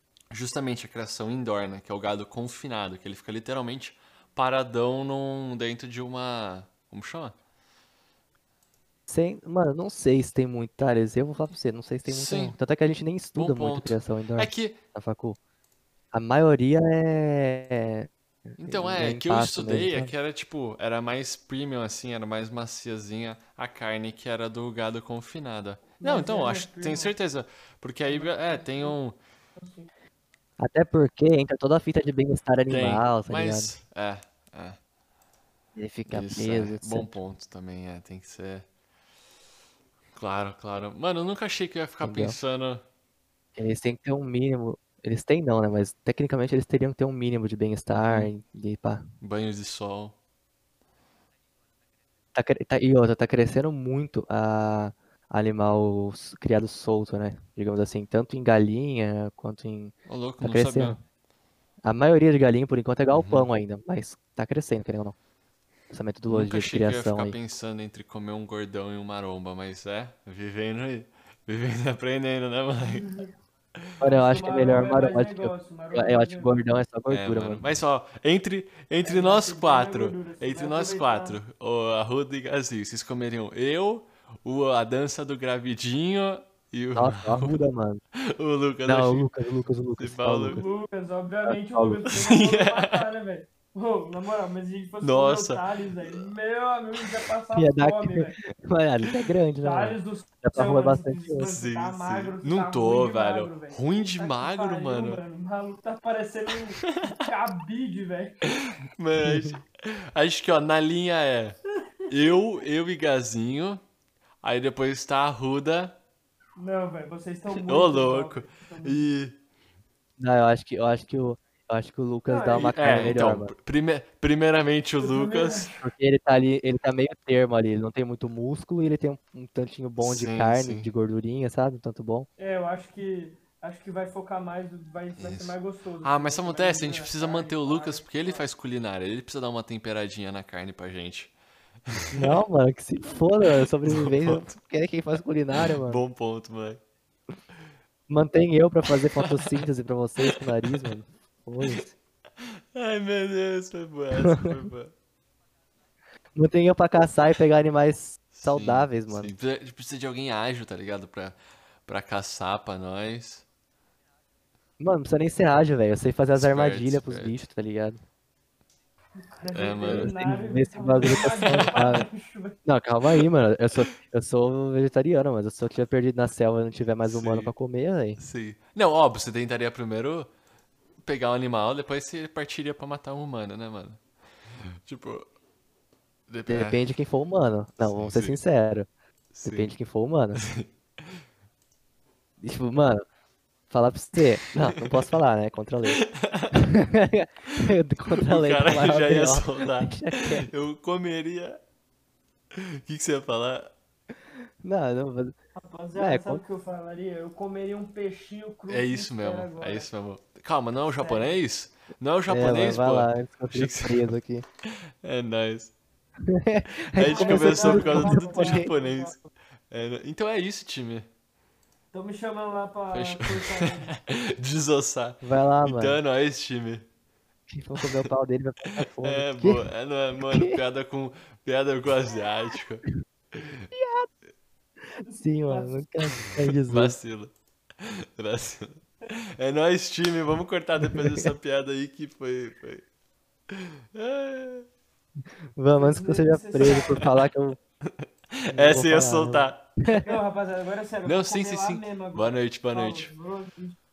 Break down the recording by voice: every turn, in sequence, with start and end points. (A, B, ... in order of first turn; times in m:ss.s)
0:00.3-0:07.4 A
0:09.1-0:15.4 B
0:12.0-0:12.6 A
0:13.3-0:14.8 A
0:16.1-0:20.1 B
0:18.6-0:29.2 A
0:26.0-0:27.2 C
0:28.0-0:29.0 C
0:29.6-0:29.9 C
0:30.6-0:33.7 B
0:32.7-0:34.8 A
0:35.7-0:37.2 B
0:36.1-0:38.6 A
0:40.2-0:42.8 A
0:42.0-0:42.4 B
0:43.6-0:49.0 B
0:48.0-0:48.3 A
0:49.2-0:50.2 A
0:52.3-1:01.0 B
1:00.1-1:01.0 A
1:01.8-1:05.2 B
1:03.1-1:03.5 A
1:05.9-1:07.4 B
1:06.3-1:13.1 A
1:12.8-1:13.3 C
1:14.0-1:17.6 B
1:14.1-1:16.6 C
1:17.1-1:27.6 A
1:19.0-1:21.4 C
1:26.9-1:28.0 B
1:28.3-1:29.3 A
1:28.8-1:30.6 B
1:30.0-1:30.6 A
1:30.5-1:38.4 C
1:31.4-1:32.1 B
1:32.1-1:33.1 A
1:35.0-1:36.3 A
1:37.5-1:41.4 B
1:39.6-1:48.4 C
1:41.4-1:45.2 A
1:46.8-1:47.2 A
1:49.0-1:51.6 A
1:49.2-1:49.5 B
1:52.1-1:53.8 A
1:54.4-1:56.0 A
1:56.6-1:59.1 C
1:57.5-1:59.4 A
2:00.2-2:03.5 B
2:02.3-2:03.1 C
2:02.5-2:05.8 A
2:05.0-2:05.8 C
2:05.8-2:12.3 B
2:10.0-2:10.9 A
2:12.4-2:18.5 C
2:15.2-2:21.3 A
2:21.9-2:22.3 A
2:22.1-2:26.0 B
2:23.8-2:24.5 A
2:25.5-2:26.8 A
2:28.1-2:31.9 B
2:29.2-2:29.6 A
2:30.2-2:31.0 A
2:32.7-2:34.9 A
2:36.3-2:39.3 B
2:38.3-2:43.4 A
2:44.8-2:48.0 B
2:46.3-2:47.4 A
2:49.2-2:52.6 C
2:49.5-2:50.1 A
2:49.9-2:52.1 B
2:51.0-2:51.9 A
2:52.6-2:58.2 B
2:57.0-2:57.5 A
2:58.2-3:00.3 A
3:01.0-3:04.0 A
3:04.8-3:05.3 A
3:06.3-3:06.8 A
3:06.5-3:08.9 B
3:07.8-3:08.4 A
3:09.3-3:09.7 A
3:09.4-3:10.4 B
3:10.3-3:10.7 A
3:12.4-3:13.0 B
3:13.7-3:16.0 B
3:15.9-3:16.6 A
3:16.5-3:20.5 B
3:18.2-3:21.6 A
3:22.8-3:23.7 A
3:24.6-3:25.3 B
3:25.6-3:29.9 C
3:25.9-3:26.4 B
3:28.7-3:34.1 A
3:30.9-3:31.4 C
3:32.3-3:34.4 B
3:34.6-3:35.7 A
3:36.3-3:38.7 B
3:37.0-3:39.2 A
3:37.0-3:39.3 C
3:39.7-3:41.0 A
3:41.9-3:44.0 C
3:42.9-3:46.8 A
3:45.2-3:46.0 B
3:47.5-3:49.7 B
3:49.0-3:53.5 A
3:50.3-3:50.6 B
3:53.7-3:54.1 B
3:55.0-3:55.8 C
3:55.1-3:57.0 B
3:56.3-3:58.8 A
3:59.3-4:02.8 A
4:03.5-4:04.6 A
4:05.6-4:07.6 B
4:05.8-4:07.1 C
4:06.6-4:07.1 A
4:08.4-4:09.6 A
4:08.5-4:10.0 B
4:09.8-4:13.8 C
4:11.0-4:13.1 A